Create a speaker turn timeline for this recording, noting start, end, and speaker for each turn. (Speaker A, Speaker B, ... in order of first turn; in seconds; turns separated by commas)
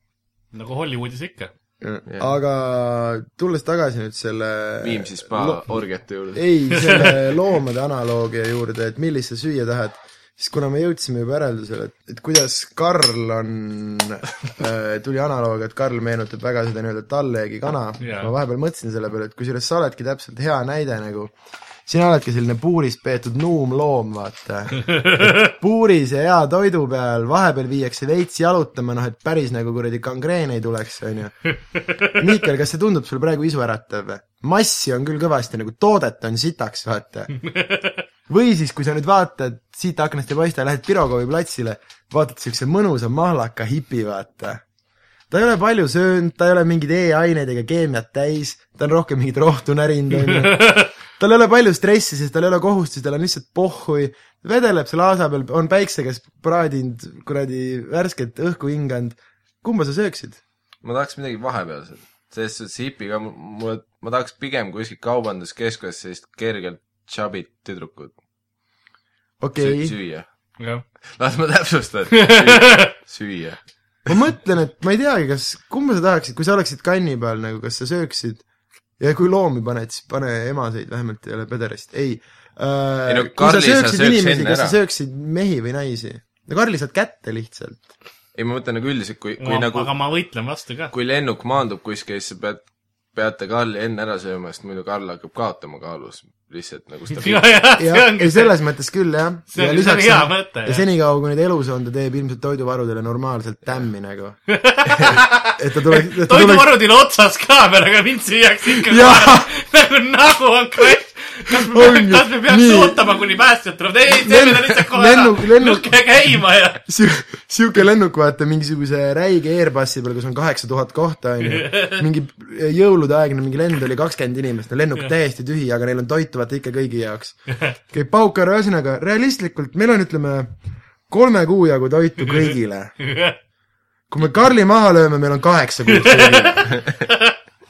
Speaker A: 0.5-1.5, Speaker B: 1.8-5.8, Speaker C: 2.0-2.3, Speaker C: 4.8-6.5, Speaker B: 6.3-21.3, Speaker A: 6.7-7.1, Speaker A: 18.0-18.3, Speaker B: 21.9-37.3, Speaker A: 24.8-25.5, Speaker A: 37.4-38.0, Speaker B: 38.3-44.6, Speaker B: 45.3-60.4, Speaker A: 50.3-50.9, Speaker C: 60.8-68.1, Speaker B: 69.4-69.9, Speaker C: 69.6-70.2, Speaker A: 70.6-70.8, Speaker C: 71.0-73.6, Speaker A: 72.1-72.9, Speaker B: 74.0-78.4, Speaker B: 79.0-87.9, Speaker C: 83.1-84.8, Speaker C: 88.3-89.9, Speaker A: 89.4-90.9, Speaker C: 90.9-97.7, Speaker A: 97.1-98.6, Speaker B: 97.8-104.4, Speaker A: 99.5-100.8, Speaker A: 104.5-116.8, Speaker B: 105.5-106.8, Speaker B: 108.8-109.5, Speaker B: 111.5-113.0, Speaker B: 114.1-116.0, Speaker B: 116.8-130.6, Speaker A: 121.4-122.0, Speaker B: 131.1-132.9, Speaker A: 133.0-133.4, Speaker B: 134.1-136.7, Speaker A: 135.9-137.3